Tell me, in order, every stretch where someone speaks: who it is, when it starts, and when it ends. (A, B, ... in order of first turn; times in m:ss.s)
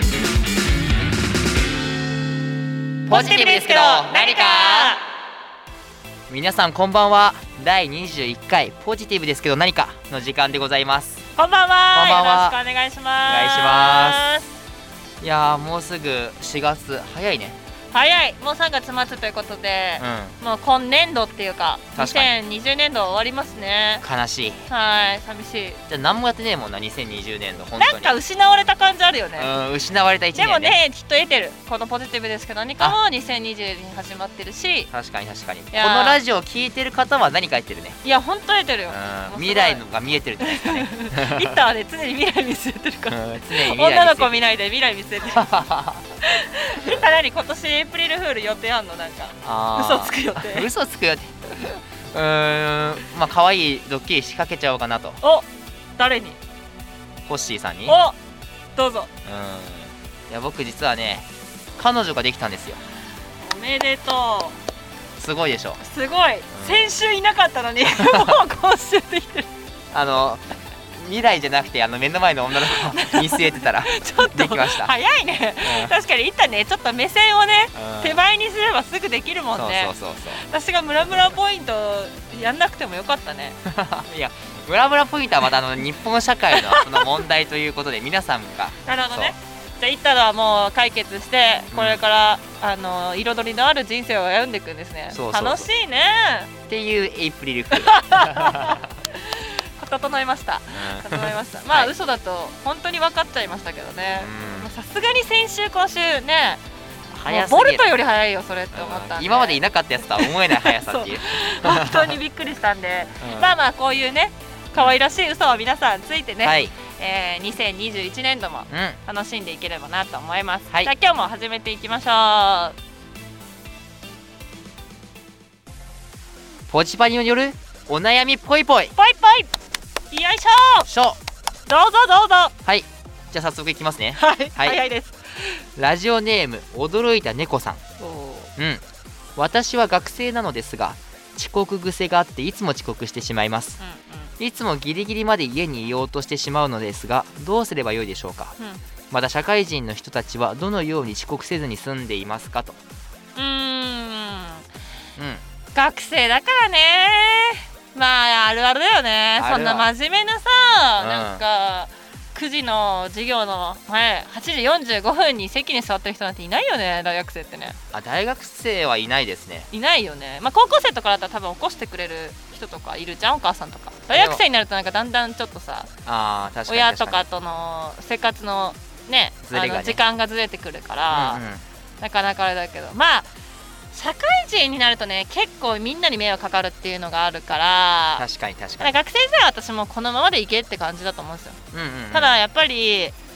0:03.1-0:05.0 A
0:03.1-0:05.0 B
0:06.3-0:11.2 A
0:11.4-0:14.6 B
0:11.9-0:12.6 A
0:13.3-0:14.3 A
0:15.2-0:17.6 A
0:17.9-0:24.0 B
0:20.0-0:20.4 A
0:22.0-0:22.3 A
0:24.0-0:24.7 A
0:24.7-0:25.8 B
0:25.9-0:28.2 A
0:27.8-0:29.6 B
0:29.4-0:30.8 A
0:30.3-0:34.9 B
0:34.9-0:38.0 A
0:35.7-0:36.2 B
0:38.0-0:39.8 B
0:38.9-0:41.6 A
0:40.4-0:45.7 B
0:43.1-0:44.4 A
0:45.4-0:46.0 A
0:46.2-0:50.7 B
0:49.4-0:51.3 A
0:52.1-0:55.2 A
0:55.2-0:55.5 B
0:56.0-0:56.4 B
0:57.3-0:58.0 A
0:57.9-0:58.2 B
0:58.8-0:59.1 B
0:59.2-1:02.8 A
1:03.4-1:04.6 B
1:05.2-1:05.8 A
1:05.8-1:09.5 B
1:06.5-1:06.9 A
1:08.0-1:08.4 A
1:09.9-1:10.4 A
1:11.0-1:14.9 A
1:12.6-1:23.6 B
1:15.6-1:16.0 A
1:17.8-1:18.2 A
1:19.5-1:20.4 A
1:23.6-1:29.3 A
1:26.5-1:27.1 B
1:28.8-1:36.5 B
1:31.7-1:32.0 A
1:35.1-1:35.7 A
1:36.7-1:38.8 A
1:37.7-1:46.6 B
1:40.7-1:41.9 A
1:44.2-1:44.7 A
1:47.1-1:47.9 A
1:47.3-2:02.8 B
1:48.7-1:52.2 A
1:53.2-1:53.6 A
1:56.4-1:56.7 A
1:58.7-1:59.0 A
2:06.7-2:09.0 A
2:09.0-2:09.5 B
2:10.1-2:10.9 B
2:10.9-2:11.2 A
2:11.7-2:12.5 B
2:12.6-2:14.8 A
2:14.2-2:15.6 B
2:15.8-2:17.8 A
2:18.0-2:18.5 B
2:18.6-2:18.8 A
2:19.4-2:23.8 A
2:23.8-2:24.3 B
2:24.4-2:28.6 A
2:29.1-2:32.8 A
2:33.4-2:34.6 B
2:35.2-2:35.4 A
2:35.8-2:47.8 B
2:39.4-2:39.9 A
2:41.0-2:41.4 A
2:47.9-2:49.7 A
2:49.7-2:55.9 B
2:54.1-2:54.4 A
2:56.1-2:57.3 A
2:56.7-3:01.4 B
2:59.4-3:00.0 A
3:01.1-3:01.6 A
3:02.0-3:03.3 B
3:03.9-3:08.2 B
3:08.2-3:09.0 A
3:08.8-3:11.6 B
3:11.7-3:12.4 A
3:12.1-3:13.2 B